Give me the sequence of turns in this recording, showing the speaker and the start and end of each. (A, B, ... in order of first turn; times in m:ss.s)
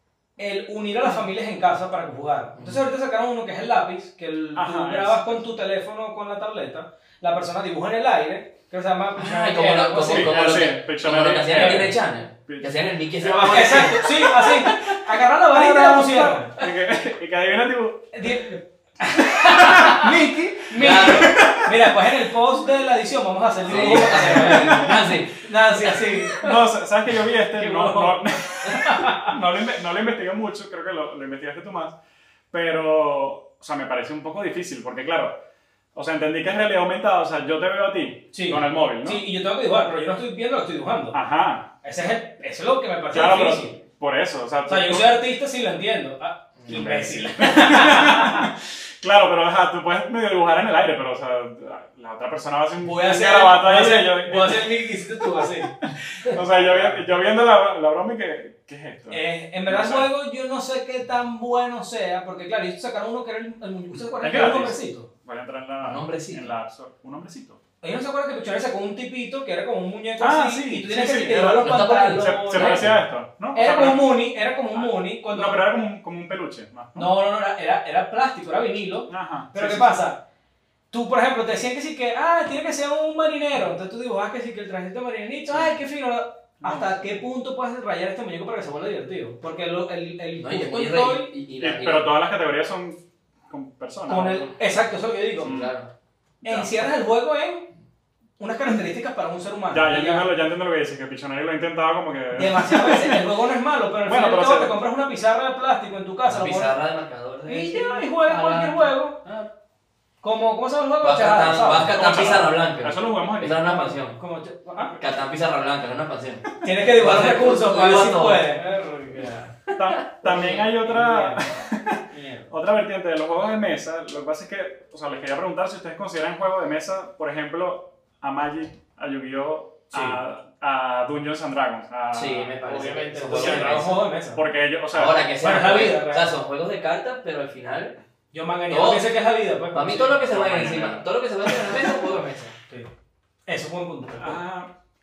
0:00.4-0:10.4 A
0:02.6-0:02.8 B
0:04.6-0:05.4 C
0:09.2-0:14.3 B
0:10.1-0:18.3 C
0:11.5-0:12.0 A
0:13.3-0:16.6 A
0:18.1-0:26.7 A
0:19.4-0:20.2 C
0:19.6-0:20.0 B
0:20.8-0:21.4 B
0:20.8-0:21.9 C
0:23.7-0:25.0 C
0:23.7-0:26.2 B
0:26.4-0:32.0 C
0:27.5-0:29.3 A
0:32.5-0:35.4 C
0:36.0-0:39.3 C
0:38.3-0:41.2 A
0:41.1-0:41.7 C
0:41.8-0:43.8 A
0:43.1-0:45.1 C
0:44.7-0:48.5 A
0:46.6-0:46.9 B
0:46.7-0:54.8 C
0:52.8-0:57.0 A
0:55.8-1:00.1 C
0:59.1-1:05.1 A
1:04.2-1:07.6 C
1:05.8-1:06.5 B
1:07.8-1:12.9 A
1:10.2-1:14.1 C
1:11.6-1:12.9 B
1:13.5-1:15.6 A
1:14.8-1:17.1 C
1:17.0-1:20.2 A
1:19.1-1:20.0 C
1:20.9-1:31.3 A
1:26.6-1:27.0 C
1:30.4-1:32.1 B
1:31.6-1:34.5 C
1:34.1-1:35.6 A
1:35.4-1:35.7 C
1:35.4-1:35.9 B
1:36.4-1:36.8 C
1:36.4-1:37.7 A
1:38.4-1:40.3 A
1:39.7-1:43.3 C
1:42.3-1:46.8 A
1:44.0-1:44.8 C
1:46.3-1:49.5 B
1:47.5-1:49.2 A
1:50.2-1:52.0 A
1:51.0-1:54.2 B
1:51.9-1:53.7 C
1:53.7-1:55.0 A
1:54.8-1:58.5 B
1:56.6-1:59.6 A
1:59.7-2:00.7 B
1:59.8-2:12.5 C
2:00.3-2:01.5 A
2:02.1-2:02.5 A
2:09.9-2:10.2 A
2:12.1-2:14.1 B
2:12.6-2:14.4 A
2:13.3-2:15.2 C
2:14.9-2:18.0 B
2:15.4-2:16.3 A
2:18.3-2:20.2 A
2:18.7-2:19.1 B
2:19.7-2:22.6 B
2:20.2-2:21.8 C
2:23.5-2:24.4 A
2:24.2-2:24.7 C